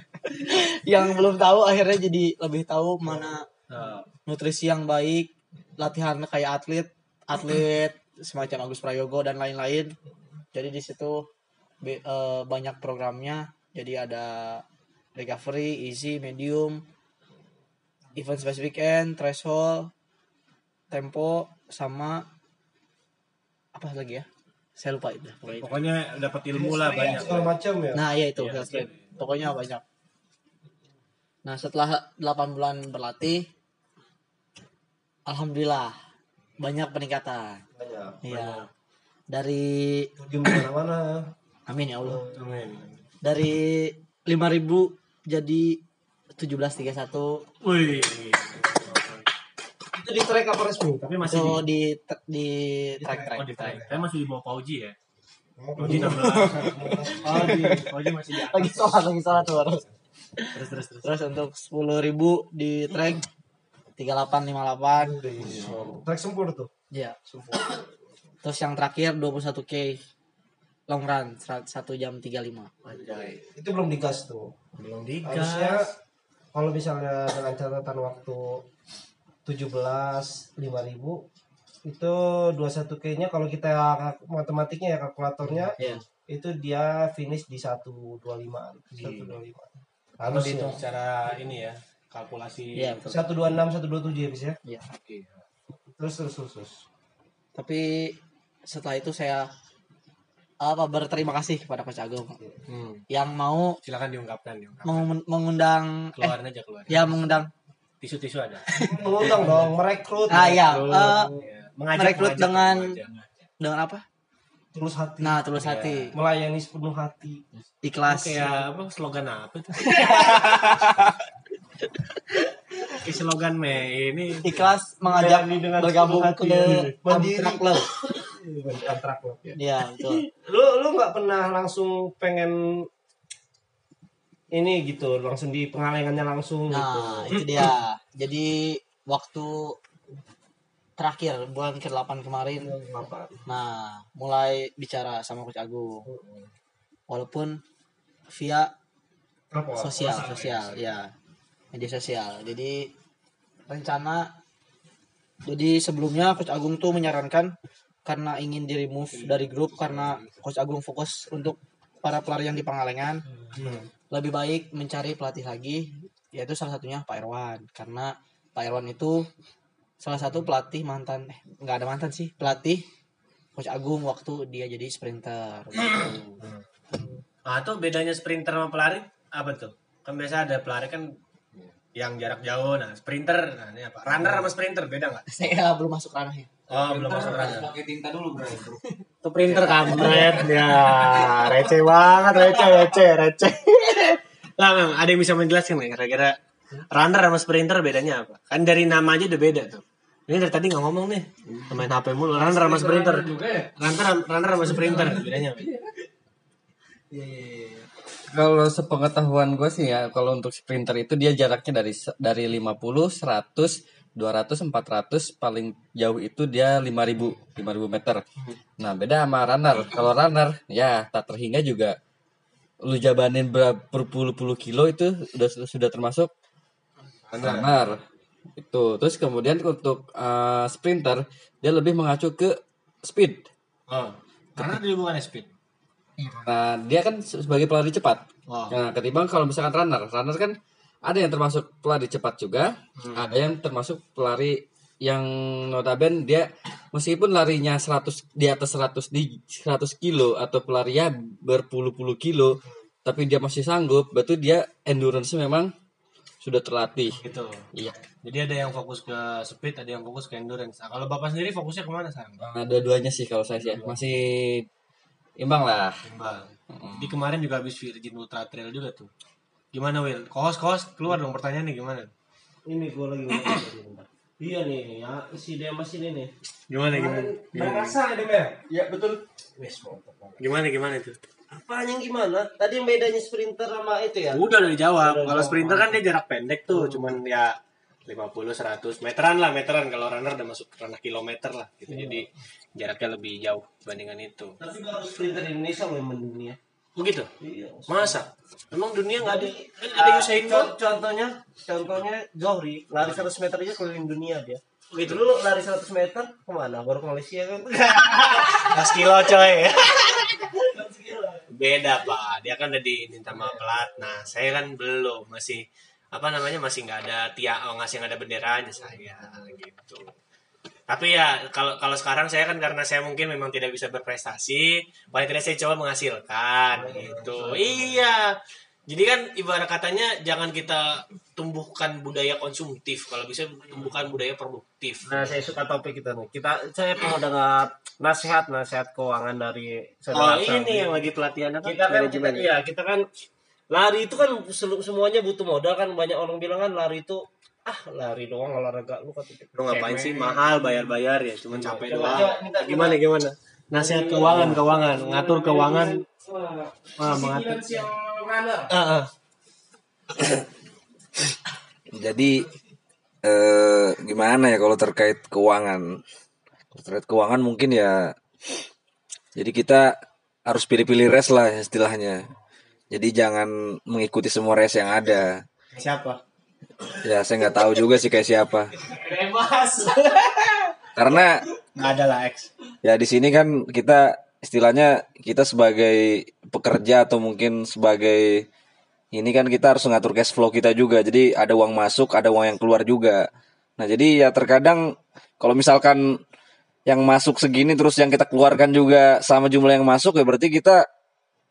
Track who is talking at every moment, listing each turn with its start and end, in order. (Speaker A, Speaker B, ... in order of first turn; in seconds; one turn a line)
Speaker A: 0.3-3.5
Speaker B: 3.7-4.0
Speaker A: 4.3-9.9
Speaker A: 10.5-11.2
Speaker A: 11.8-14.6
Speaker A: 15.2-16.8
Speaker A: 18.2-19.9
Speaker A: 20.9-22.2
Speaker A: 23.7-24.3
Speaker A: 24.8-25.8
Speaker B: 25.5-27.5
Speaker C: 26.6-28.0
Speaker A: 27.9-29.8
Speaker B: 28.4-29.1
Speaker A: 31.4-33.5
Speaker A: 35.3-36.0
Speaker A: 36.6-37.6
Speaker C: 37.8-38.6
Speaker A: 38.2-38.7
Speaker A: 39.3-40.1
Speaker C: 40.2-41.3
Speaker A: 41.7-42.4
Speaker B: 42.2-43.0
Speaker A: 43.2-45.8
Speaker A: 46.4-47.4
Speaker B: 47.6-49.3
Speaker C: 50.0-51.6
Speaker B: 51.0-51.6
Speaker A: 51.3-53.9
Speaker C: 53.0-54.0
Speaker B: 53.4-55.0
Speaker C: 55.6-57.9
Speaker B: 55.8-59.9
Speaker A: 55.8-59.9
Speaker A: 60.4-63.3
Speaker B: 60.5-61.2
Speaker A: 64.0-65.6
Speaker C: 65.0-66.7
Speaker A: 66.9-67.8
Speaker A: 68.4-70.0
Speaker A: 70.9-72.7
Speaker B: 72.8-73.4
Speaker C: 73.5-74.5
Speaker B: 74.8-75.9
Speaker C: 75.2-75.9
Speaker C: 76.5-78.6
Speaker C: 79.5-81.2
Speaker C: 81.8-85.8
Speaker C: 86.3-90.8
Speaker B: 89.0-89.4
Speaker B: 90.3-93.0
Speaker A: 92.8-93.3
Speaker C: 93.1-94.6
Speaker A: 94.7-94.9
Speaker B: 95.0-95.4
Speaker C: 96.0-96.8
Speaker A: 97.6-98.2
Speaker A: 98.7-99.5
Speaker A: 100.6-102.4
Speaker B: 102.7-103.0
Speaker A: 103.1-103.8
Speaker B: 103.8-105.1
Speaker A: 104.8-106.4
Speaker B: 106.2-107.2
Speaker A: 106.9-107.5
Speaker B: 108.0-109.5
Speaker C: 108.8-111.5
Speaker A: 110.3-111.3
Speaker B: 110.4-113.2
Speaker A: 112.0-113.0
Speaker A: 113.6-114.0
Speaker C: 114.7-115.4
Speaker A: 115.2-116.2
Speaker B: 115.6-116.1
Speaker C: 116.1-117.4
Speaker A: 117.8-118.5
Speaker B: 118.1-120.7
Speaker A: 119.9-121.2
Speaker B: 122.9-124.7
Speaker A: 124.4-127.8
Speaker C: 125.1-127.9
Speaker C: 128.4-129.6
Speaker A: 129.6-130.2
Speaker C: 130.1-132.6
Speaker C: 134.5-137.4
Speaker A: 136.7-139.8
Speaker A: 141.0-142.7
Speaker C: 142.6-143.4
Speaker A: 143.5-146.1
Speaker C: 146.1-146.5
Speaker A: 147.1-147.6
Speaker A: 148.3-148.7
Speaker C: 149.5-150.8
Speaker A: 149.8-151.1
Speaker A: 151.7-152.9
Speaker A: 153.7-154.3
Speaker A: 155.5-157.5
Speaker A: 158.1-163.2
Speaker B: 159.2-160.3
Speaker C: 163.6-163.9
Speaker A: 164.1-169.3
Speaker A: 170.0-172.8
Speaker A: 173.6-176.4
Speaker B: 177.5-181.2
Speaker B: 181.9-185.3
Speaker A: 185.3-186.5
Speaker B: 186.7-187.7
Speaker D: 186.9-188.7
Speaker B: 189.2-196.4
Speaker B: 196.9-203.3
Speaker E: 202.4-203.7
Speaker B: 203.8-205.7
Speaker E: 204.7-205.9
Speaker E: 208.3-218.2
Speaker E: 218.8-222.0
Speaker E: 222.9-226.3
Speaker B: 227.3-227.7
Speaker E: 227.4-228.0
Speaker E: 228.6-233.5
Speaker B: 233.9-235.5
Speaker E: 236.4-255.7
Speaker B: 238.5-238.8
Speaker B: 243.0-243.3
Speaker E: 256.4-257.2
Speaker B: 257.2-262.4
Speaker E: 262.4-264.7
Speaker E: 265.4-266.0
Speaker B: 266.1-269.1
Speaker E: 266.8-267.1
Speaker B: 269.7-272.1
Speaker C: 272.7-276.3
Speaker B: 273.3-273.6
Speaker B: 276.7-277.9
Speaker C: 276.9-278.7
Speaker C: 279.6-280.4
Speaker B: 280.4-281.2
Speaker C: 281.5-284.4
Speaker B: 284.3-294.6
Speaker C: 285.0-286.0
Speaker C: 286.7-287.1
Speaker C: 291.9-292.2
Speaker C: 294.6-296.6
Speaker B: 297.0-297.3
Speaker C: 297.4-298.2
Speaker B: 297.9-300.7
Speaker C: 299.2-309.1
Speaker B: 304.9-305.2
Speaker B: 307.9-310.5
Speaker C: 310.3-311.4
Speaker B: 311.5-315.6
Speaker B: 316.1-320.1
Speaker B: 320.9-328.2
Speaker C: 326.8-327.9
Speaker B: 328.9-335.3
Speaker C: 335.1-340.9
Speaker B: 340.1-342.5
Speaker C: 341.6-343.0
Speaker C: 343.7-350.9
Speaker B: 349.6-356.0
Speaker C: 351.5-353.0
Speaker C: 353.8-358.7
Speaker B: 357.0-357.9
Speaker B: 358.7-359.1
Speaker D: 361.9-362.5
Speaker D: 363.2-366.0
Speaker D: 366.8-368.1
Speaker D: 369.4-372.3
Speaker D: 372.9-375.4
Speaker B: 375.8-376.2
Speaker D: 377.0-378.7
Speaker B: 378.9-380.6
Speaker D: 381.0-381.4
Speaker B: 381.8-382.5
Speaker D: 382.8-388.4
Speaker D: 389.1-393.3
Speaker D: 393.8-396.2
Speaker D: 396.9-400.8